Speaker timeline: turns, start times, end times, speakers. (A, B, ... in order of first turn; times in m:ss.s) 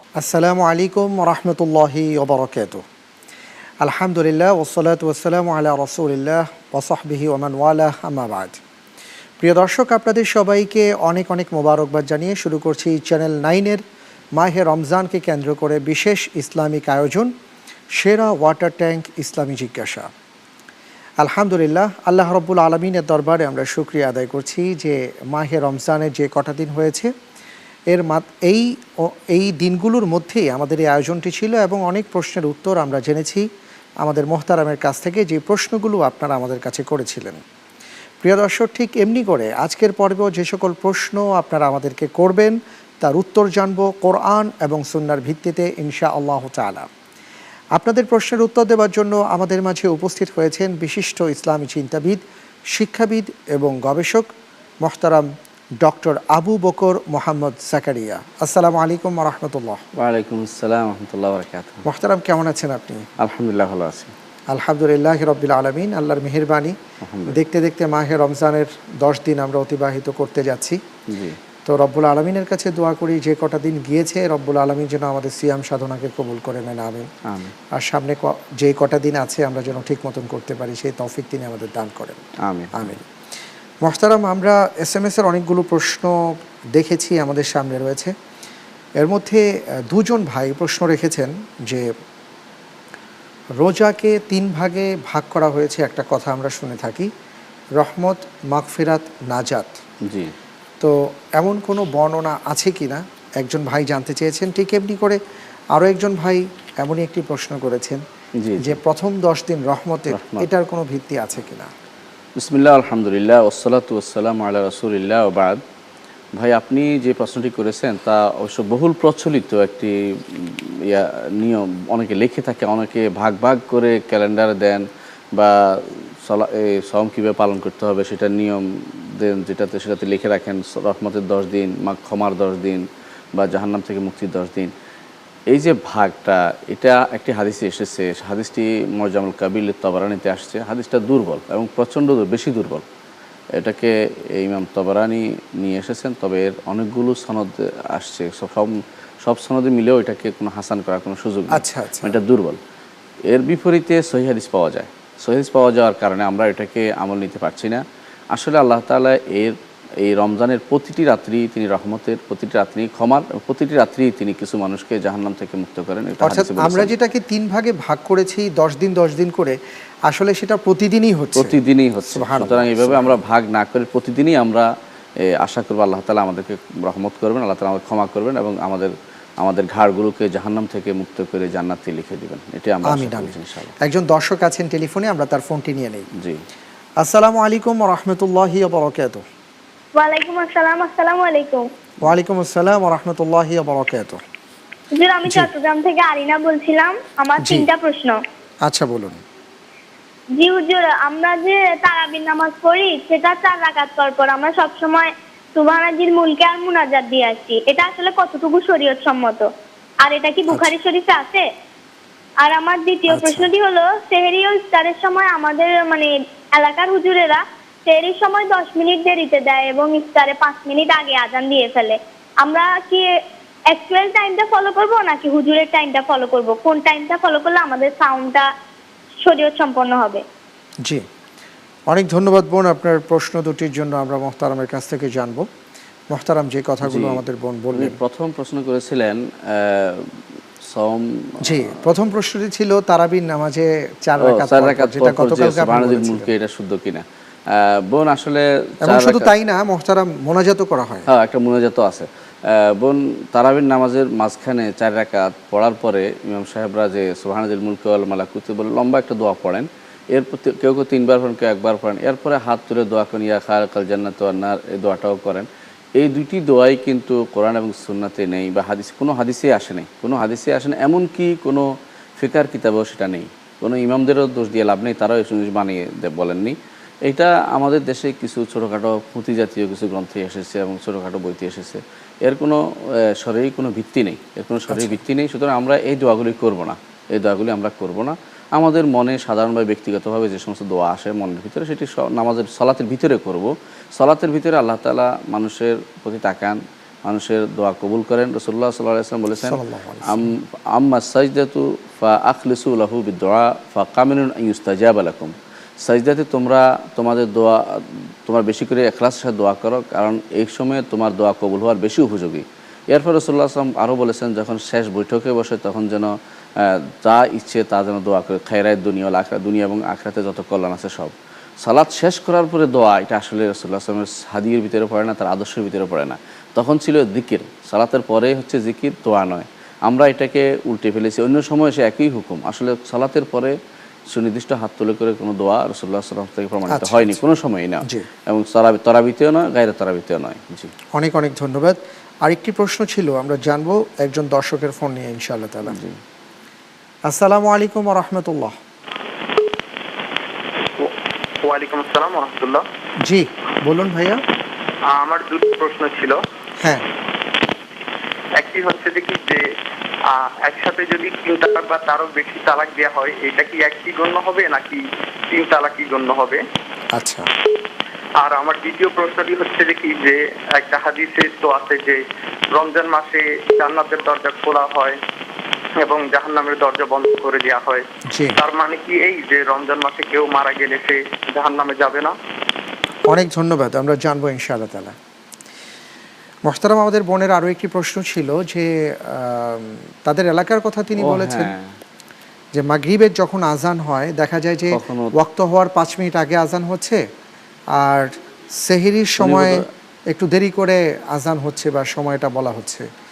0:00.2-0:02.8 A
0:03.8-0:08.6 A
0:09.4-0:13.8 A
0:14.4-0:17.3 A
0:18.0-0:20.1 A
0:21.2-0:27.1 A
0:27.9-0:33.5 A
0:34.0-0:37.4 A
0:38.2-0:46.9 A
0:47.8-0:54.3 A
0:54.8-0:55.3 A
0:55.8-0:59.8 A
1:00.0-1:01.8 B
1:01.8-1:03.0 A
1:03.2-1:04.1 B
1:04.5-1:10.8 A
1:07.0-1:07.4 B
1:11.1-1:11.4 B
1:11.6-1:17.1 A
1:17.3-1:17.5 B
1:17.7-1:22.2 A
1:22.4-1:23.0 B
1:22.7-1:23.0 A
1:23.8-1:26.2 A
1:26.7-1:28.1 A
1:29.0-1:31.9 A
1:33.6-1:37.1 A
1:37.8-1:39.8 A
1:40.0-1:40.3 B
1:40.8-1:45.2 A
1:45.7-1:48.0 A
1:48.4-1:48.8 B
1:48.6-1:51.7 A
1:50.1-1:50.4 B
1:52.4-1:55.6 B
1:56.4-2:04.8 B
2:05.4-2:12.8 B
2:13.4-2:14.7 B
2:15.5-2:22.8 B
2:23.5-2:32.6 B
2:31.5-2:32.2 A
2:33.3-2:37.8 B
2:38.3-2:46.9 B
2:46.2-2:51.5 A
2:51.4-2:54.7 B
2:52.1-2:53.2 A
2:55.2-3:03.8 B
3:02.8-3:06.1 A
3:07.0-3:09.2 A
3:10.0-3:11.6 C
3:12.0-3:14.2 A
3:15.0-3:18.2 C
3:17.4-3:17.7 A
3:18.6-3:19.2 A
3:20.4-3:29.5 C
3:30.0-3:31.4 C
3:32.4-3:43.1 C
3:33.1-3:33.5 A
3:43.7-3:48.5 C
3:49.2-3:50.2 C
3:51.9-3:55.5 A
3:56.1-3:58.0 A
3:56.8-3:57.2 B
3:57.7-4:00.1 B
4:00.6-4:01.8 B
4:01.4-4:06.3 A
4:04.2-4:09.3 B
4:08.8-4:11.1 A
4:11.1-5:33.5 B
4:44.7-4:45.0 A
4:59.4-5:00.3 A
5:34.1-5:40.7 B
5:36.7-5:37.2 A
5:40.9-5:45.8 A
5:45.7-5:46.0 B
5:47.1-5:48.6 A
5:51.4-5:52.6 D
5:53.0-5:54.2 A
5:54.9-5:56.2 D
5:58.4-5:59.4 D
6:00.1-6:06.4 D
6:06.9-6:07.3 A
6:08.2-6:15.0 D
6:15.8-6:17.8 D
6:18.1-6:18.4 A
6:18.4-6:22.2 D
6:23.1-6:25.0 A
6:26.4-6:31.5 A
6:31.0-6:31.7 B
6:32.5-6:37.0 A
6:34.7-6:35.1 B
6:37.7-6:42.9 A
6:39.2-6:39.6 B